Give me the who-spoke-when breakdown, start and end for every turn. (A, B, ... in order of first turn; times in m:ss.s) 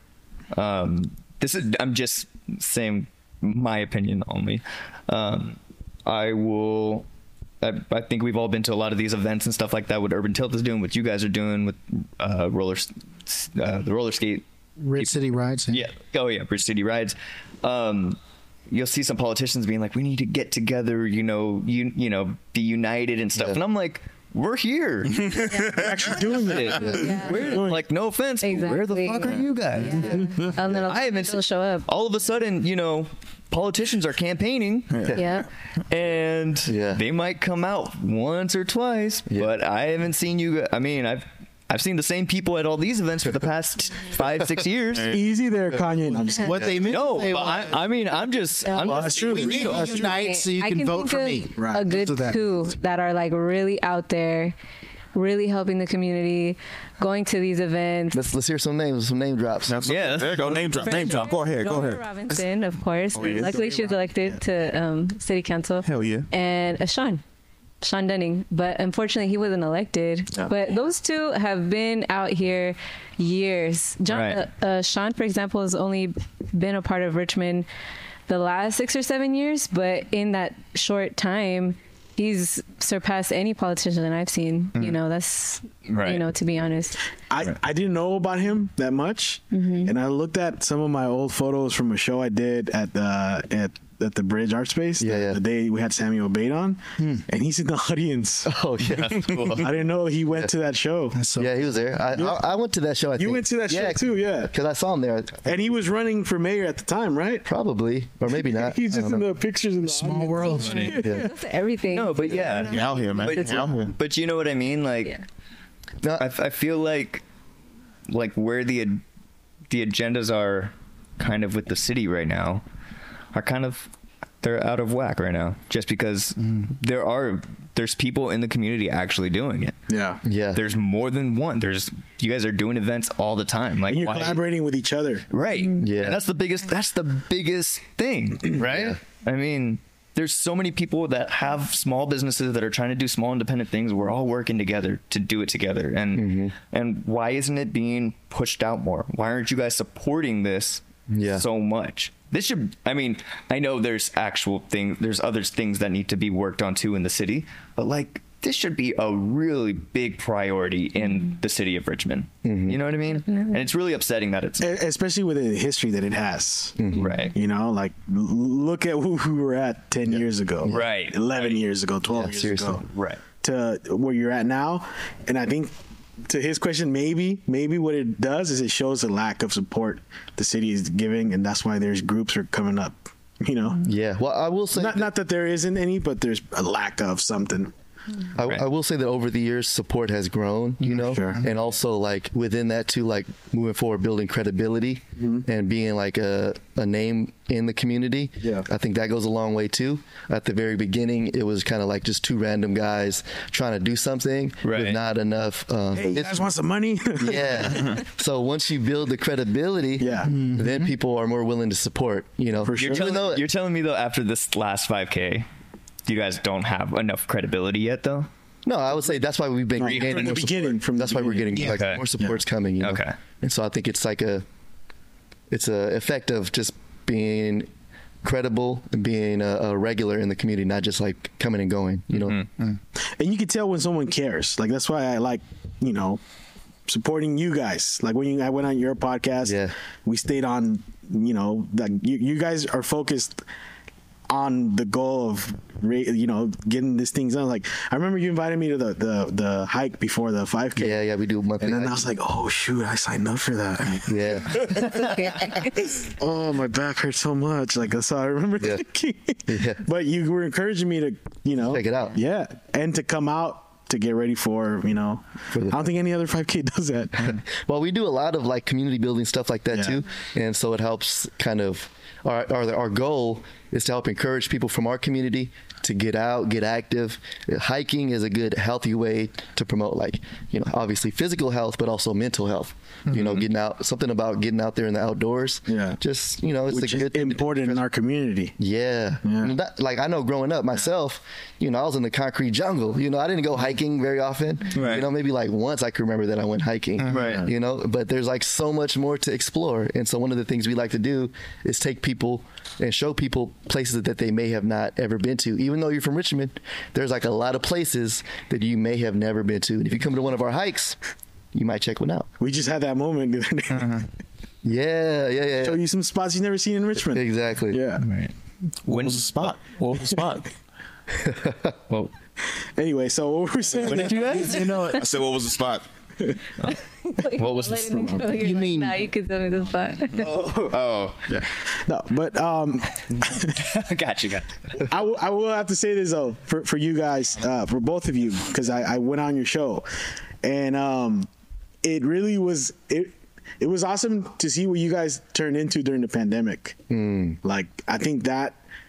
0:00.5-0:07.0 A
0:07.6-0:14.4 A
0:14.8-0:15.8 B
0:15.0-0:18.2 A
0:18.7-0:25.4 A
0:25.2-0:26.6 C
0:25.5-0:25.8 D
0:25.7-0:27.8 E
0:26.3-0:30.2 A
0:26.7-0:27.6 D
0:28.4-0:31.9 D
0:30.8-0:35.0 A
0:35.1-0:35.5 D
0:35.9-0:45.1 A
0:36.7-0:37.0 F
0:44.9-0:45.2 C
0:45.1-0:46.6 E
0:46.4-0:47.8 B
0:46.8-0:50.0 A
0:48.6-0:54.6 D
0:48.8-0:49.8 E
0:49.1-0:52.4 B
0:51.5-0:51.8 E
0:55.1-0:58.2 D
0:58.1-0:59.8 F
0:59.7-1:02.4 C
0:59.8-1:01.3 A
1:00.6-1:07.2 D
1:03.1-1:03.6 C
1:03.2-1:04.3 E
1:05.8-1:06.3 C
1:07.8-1:17.7 D
1:14.1-1:14.4 A
1:18.3-1:27.0 D
1:25.9-1:26.2 A
1:27.3-1:38.5 E
1:29.5-1:29.9 D
1:35.0-1:35.4 F
1:37.0-1:37.2 B
1:38.4-1:39.6 F
1:38.9-1:39.7 A
1:39.6-1:41.2 E
1:41.1-1:41.6 B
1:41.4-1:45.5 F
1:42.1-1:42.4 E
1:43.2-1:44.5 E
1:45.4-1:47.4 E
1:47.4-1:49.2 F
1:48.4-1:51.3 E
1:49.8-1:51.0 B
1:50.5-1:53.7 D
1:51.0-1:51.3 F
1:51.9-1:55.1 A
1:52.6-1:53.9 C
1:56.2-1:57.2 A
1:58.1-1:59.0 A
1:59.7-2:02.6 A
2:03.3-2:03.9 A
2:04.4-2:09.8 A
2:09.9-2:10.2 E
2:10.2-2:10.6 F
2:10.5-2:14.4 A
2:13.9-2:15.2 E
2:15.3-2:44.7 A
2:15.8-2:16.2 F
2:18.6-2:19.0 F
2:26.1-2:26.5 F
2:31.1-2:31.4 F
2:42.4-2:42.8 F
2:43.2-2:43.6 D
2:44.6-2:46.8 E
2:46.8-2:47.1 F
2:46.9-2:47.3 A
2:47.3-2:52.8 E
2:50.6-2:51.6 A
2:52.1-2:52.8 F
2:52.9-2:53.2 A
2:53.4-2:55.7 E
2:56.2-3:03.8 E
3:03.8-3:05.1 F
3:04.7-3:07.7 E
3:08.4-3:26.5 F
3:10.8-3:11.4 E
3:15.2-3:15.4 E
3:24.6-3:25.0 A
3:25.9-3:27.9 E
3:27.2-3:33.4 F
3:30.0-3:30.3 E
3:30.2-3:30.9 B
3:32.6-3:33.2 E
3:32.8-3:35.5 A
3:36.1-3:38.3 A
3:38.6-3:44.4 F
3:39.8-3:42.4 E
3:39.8-3:40.3 A
3:41.6-3:42.0 A
3:42.8-3:43.1 A
3:45.5-3:47.7 F
3:48.2-3:52.4 F
3:53.2-3:56.2 E
3:56.9-4:03.4 E
3:59.4-3:59.7 F
4:04.3-4:11.0 E
4:10.8-4:12.0 F
4:11.6-4:14.3 E
4:14.1-4:14.7 F
4:14.9-4:15.9 D
4:15.8-4:27.4 E
4:19.5-4:19.8 F
4:21.6-4:22.2 F
4:27.2-4:47.8 F
4:29.7-4:30.0 E
4:45.7-4:46.0 E
4:46.7-4:48.6 E
4:48.6-5:11.0 F
4:49.2-4:49.5 E
4:54.7-4:55.1 A
4:57.1-4:57.4 A
4:57.1-4:57.5 E
5:11.5-5:12.3 F
5:12.4-5:13.9 E
5:13.7-5:14.0 C
5:14.6-5:15.8 F
5:15.6-5:18.0 E
5:17.1-5:17.8 F
5:18.0-5:18.3 A
5:18.8-5:20.5 C
5:18.9-5:19.5 A
5:21.1-5:21.7 F
5:22.8-5:24.5 E
5:23.8-5:24.6 A
5:24.0-5:25.0 B
5:24.9-5:25.8 C
5:26.7-5:30.3 D
5:27.3-5:28.2 A
5:28.0-5:28.2 E
5:28.4-5:29.0 B
5:30.2-5:31.3 A
5:31.8-5:33.6 E
5:33.1-5:34.5 A
5:34.8-5:39.8 E
5:40.4-5:41.3 E
5:41.8-5:46.8 E
5:46.9-5:47.4 F
5:47.4-5:48.6 E